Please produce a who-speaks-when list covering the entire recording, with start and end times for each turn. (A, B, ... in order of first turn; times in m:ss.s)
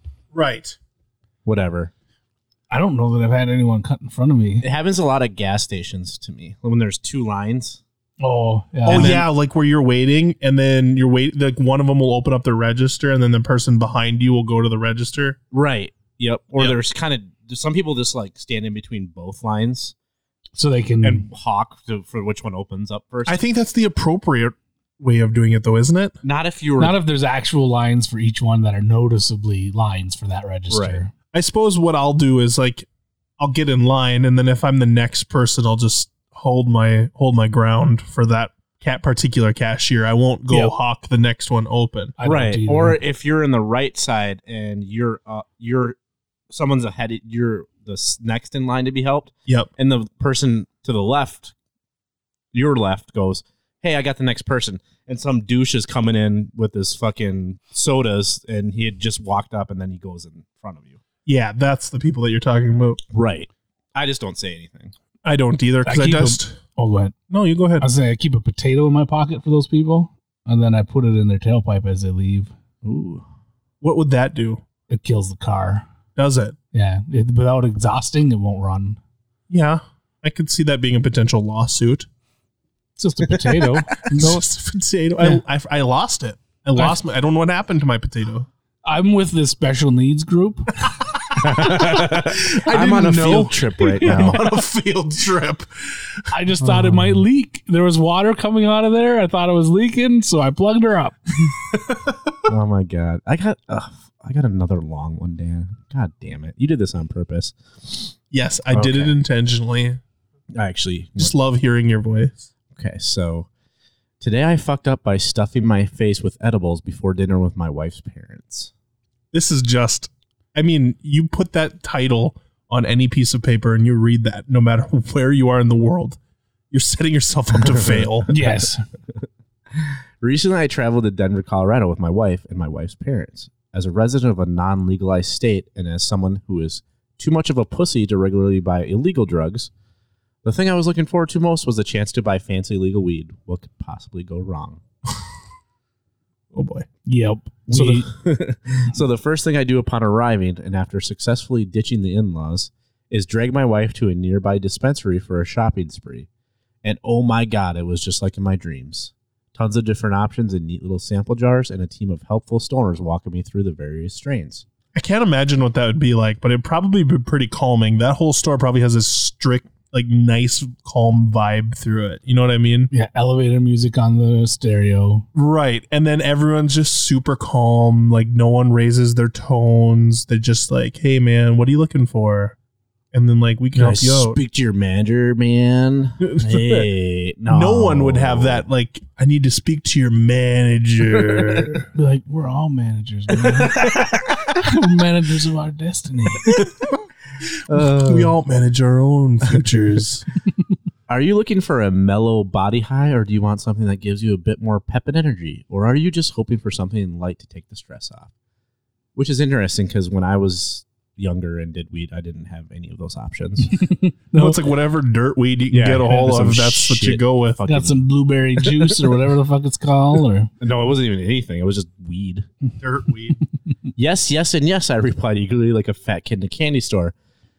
0:00.3-0:00.8 A
0:01.4-0:01.9 B
0:02.7-0:04.6 C
0:04.6-0:07.8 B
0:08.2-0:09.2 C
0:08.8-0:09.3 B
0:08.8-0:15.4 A
0:15.5-0:19.9 B
0:20.6-0:21.3 C
0:21.0-0:23.4 B
0:23.2-0:26.1 A
0:26.2-0:27.0 B
0:26.8-0:31.1 C
0:30.7-0:31.0 B
0:31.3-0:32.8 A
0:33.4-0:42.2 A
0:42.2-0:43.0 C
0:42.2-0:46.0 B
0:46.5-0:51.5 B
0:52.5-1:01.0 B
1:01.2-1:03.0 A
1:03.1-1:04.9 B
1:05.2-1:06.6 A
1:05.8-1:07.1 C
1:07.3-1:07.9 A
1:07.8-1:12.5 C
1:12.8-1:13.2 B
1:13.8-1:14.6 A
1:14.9-1:15.8 C
1:16.2-1:16.5 A
1:16.7-1:19.0 C
1:19.5-1:22.1 A
1:23.0-1:24.4 C
1:23.3-1:23.7 B
1:24.1-1:28.5 A
1:28.8-1:30.9 C
1:31.4-1:34.5 B
1:31.7-1:36.2 A
1:33.8-1:34.4 C
1:36.3-1:41.5 C
1:42.5-1:48.1 B
1:48.3-1:50.0 A
1:48.7-1:49.1 B
1:50.5-1:51.3 B
1:51.2-1:52.5 A
1:52.7-1:53.5 B
1:54.2-1:58.7 B
1:59.3-2:06.2 A
2:06.7-2:08.3 A
2:07.6-2:08.6 B
2:08.3-2:08.8 C
2:09.2-2:19.7 B
2:20.4-2:24.8 B
2:26.5-2:26.9 A
2:27.0-2:28.1 C
2:27.7-2:36.3 B
2:36.8-2:44.6 B
2:44.9-2:52.9 A
2:52.9-2:55.2 C
2:55.3-3:02.6 A
3:03.1-3:04.4 A
3:03.7-3:08.6 B
3:06.2-3:06.9 A
3:07.5-3:11.9 A
3:11.2-3:11.5 B
3:11.9-3:16.5 C
3:13.5-3:14.1 B
3:16.5-3:17.0 A
3:17.7-3:18.4 B
3:17.7-3:20.2 A
3:19.4-3:19.8 B
3:21.1-3:28.3 B
3:29.1-3:33.8 B
3:33.8-3:34.6 C
3:34.3-3:37.6 A
3:35.7-3:38.0 B
3:37.6-3:40.5 C
3:38.6-3:39.0 B
3:40.6-3:42.5 B
3:42.8-3:43.4 A
3:44.0-3:47.1 B